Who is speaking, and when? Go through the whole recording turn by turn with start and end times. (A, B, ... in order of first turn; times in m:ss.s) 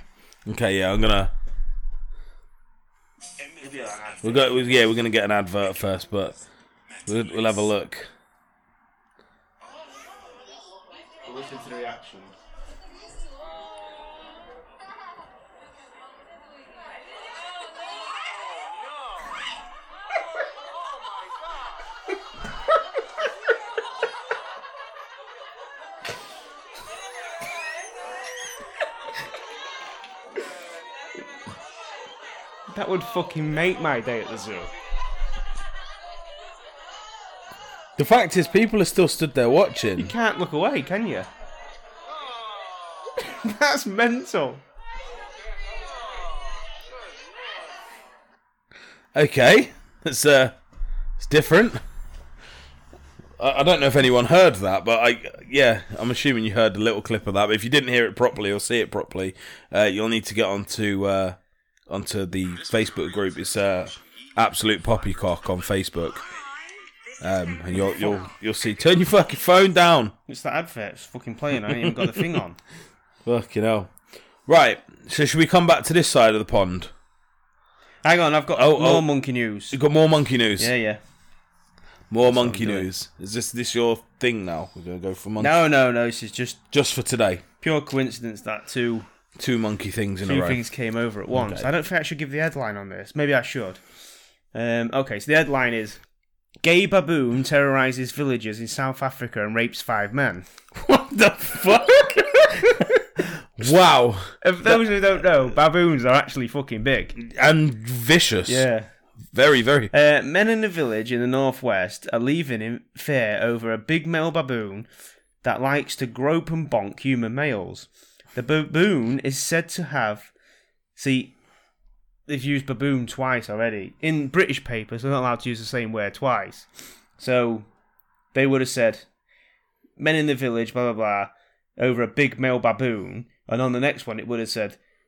0:00.5-0:01.3 A
0:03.6-0:04.2 B
0:04.2-0:06.4 A
0:07.0-0:08.1 A
0:11.2-0:12.3 B
0:32.7-0:34.7 B
0:38.0-0:40.1 A
0:40.0-0:41.3 B
0:43.2-0:44.6 B
0:49.1-0:50.6 A
0:51.2-0:51.8 A
0:53.4-1:06.2 A
1:07.2-1:10.1 A
1:10.3-1:12.6 B
1:11.8-1:12.2 A
1:13.3-1:13.9 A
1:14.5-1:16.9 A
1:18.0-1:19.8 B
1:18.6-1:19.1 A
1:19.7-1:20.7 A
1:20.6-1:21.0 B
1:22.1-1:25.6 A
1:22.2-1:22.9 B
1:25.4-1:26.6 B
1:26.7-1:27.4 A
1:27.6-1:29.1 B
1:29.4-1:30.6 A
1:30.2-1:33.8 B
1:31.3-1:31.7 A
1:34.5-1:36.0 B
1:36.6-1:40.5 B
1:40.8-1:42.9 A
1:42.0-1:43.1 B
1:43.6-1:44.8 A
1:44.4-1:47.2 B
1:47.2-1:48.7 A
1:48.5-1:48.9 B
1:49.3-1:49.9 A
1:49.9-1:54.9 B
1:55.4-2:00.3 B
2:01.0-2:01.4 B
2:02.3-2:07.7 B
2:08.3-2:09.1 B
2:10.0-2:14.8 B